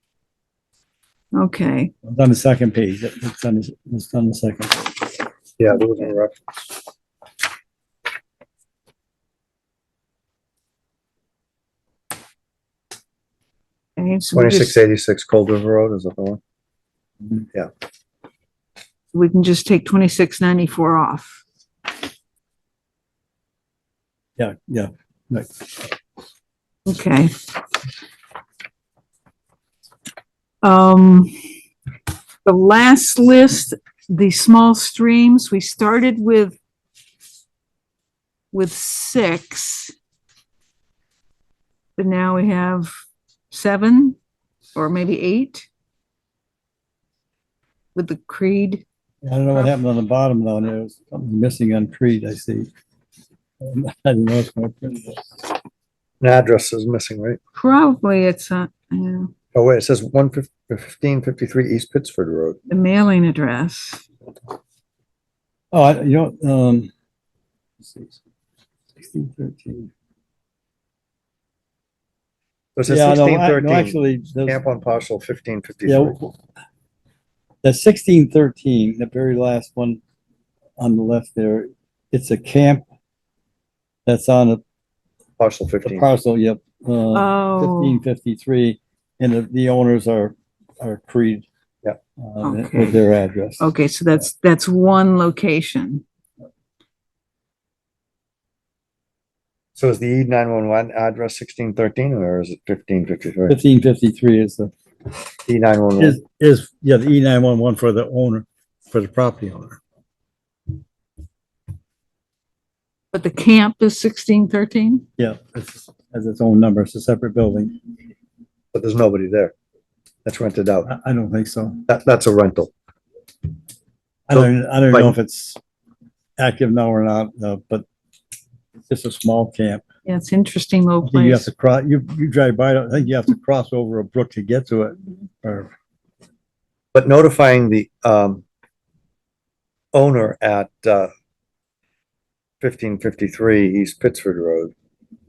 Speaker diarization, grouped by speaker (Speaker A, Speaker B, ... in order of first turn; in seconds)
Speaker A: 1.3-1.9, 14.0-14.8, 19.1-21.4, 26.9-27.4, 30.6-31.4, 32.4-36.5, 38.5-39.9, 42.0-42.9, 43.5-44.2, 44.7-45.6, 47.9-48.8, 57.5-59.3, 62.7-64.0, 87.1-88.0, 92.4-93.0, 93.6-96.0, 113.1-115.0, 130.0-131.5
Speaker B: 2.0-4.9, 24.4-25.9, 49.2-52.7, 53.6-55.4, 65.7-66.9, 67.8-68.2, 69.0-69.9, 72.9-74.6, 75.8-76.3, 77.6-80.0, 80.8-82.8, 84.0-84.6, 85.8-91.5, 92.2-93.7, 103.5-104.7, 106.0-109.8, 115.2-117.8, 120.8-121.8, 124.3-125.6, 126.4-127.8, 128.9-129.8, 131.0-135.7
Speaker C: 5.6-6.4, 14.3-16.4, 56.2-57.4, 59.5-62.6, 72.8-76.2, 85.4-86.1, 99.8-103.5, 105.5-106.2, 118.7-119.5, 120.2-120.9, 121.9-122.7, 124.3-125.1, 136.9-138.4, 139.9-141.1, 142.6-144.7